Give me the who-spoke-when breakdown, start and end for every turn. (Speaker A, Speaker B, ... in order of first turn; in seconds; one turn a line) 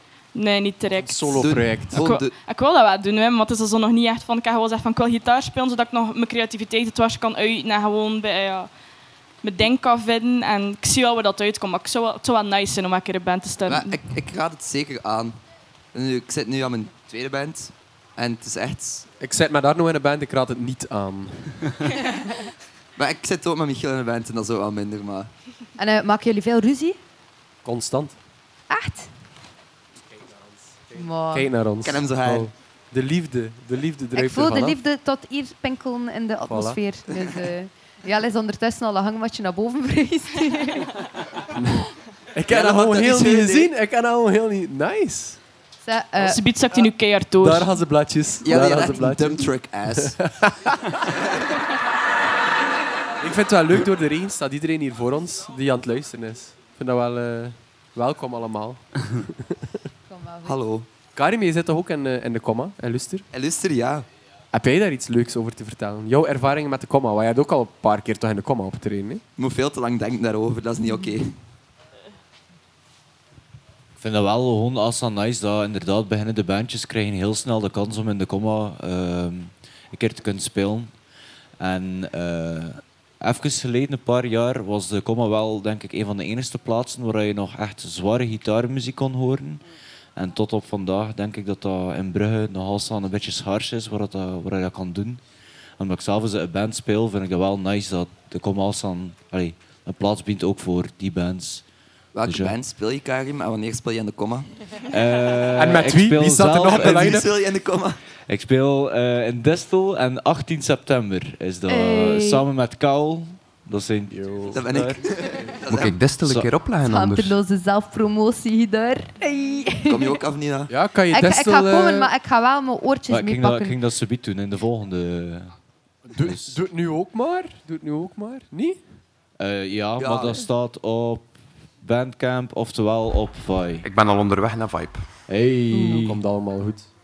Speaker A: 0.3-8.7
Speaker B: 0.9-2.0
Speaker C: 1.4-2.3
Speaker A: 9.4-14.0
Speaker C: 13.7-15.4
Speaker C: 15.9-19.1
Speaker B: 19.2-21.8
Speaker C: 22.9-25.3
Speaker D: 25.8-27.0
Speaker B: 27.6-28.2
Speaker D: 28.7-29.1
Speaker B: 30.1-34.8
Speaker D: 30.9-31.5
Speaker C: 31.8-32.5
Speaker D: 34.1-40.9
Speaker B: 36.5-36.8
Speaker B: 41.5-45.4
Speaker C: 42.5-43.7
Speaker D: 45.8-46.4
Speaker A: 46.2-47.7
Speaker B: 47.4-51.0
Speaker C: 48.4-50.2
Speaker C: 51.1-51.4
Speaker B: 53.2-59.8
Speaker D: 60.1-60.6
Speaker C: 60.4-60.9
Speaker B: 61.1-63.2
Speaker C: 63.3-64.0
Speaker B: 64.5-69.2
Speaker C: 69.4-71.3
Speaker E: 74.0-80.9
Speaker E: 81.6-89.6
Speaker E: 90.2-95.2
Speaker E: 95.8-101.6
Speaker C: 102.1-104.5
Speaker E: 102.2-102.5
Speaker E: 104.9-107.1
Speaker B: 105.5-107.3
Speaker C: 106.7-108.0
Speaker E: 108.3-115.0
Speaker D: 111.7-112.4
Speaker B: 114.1-115.4
Speaker C: 114.5-116.0
Speaker F: 115.7-117.4
Speaker E: 116.2-116.5
Speaker D: 116.8-120.2
Speaker C: 119.9-120.7
Speaker B: 120.7-122.1
Speaker D: 121.1-123.8
Speaker E: 123.1-125.5
Speaker B: 126.1-128.8
Speaker E: 126.2-126.5
Speaker E: 129.4-133.8
Speaker C: 130.0-130.4
Speaker F: 133.8-135.0
Speaker E: 135.3-136.1
Speaker B: 135.3-136.9
Speaker D: 135.7-136.0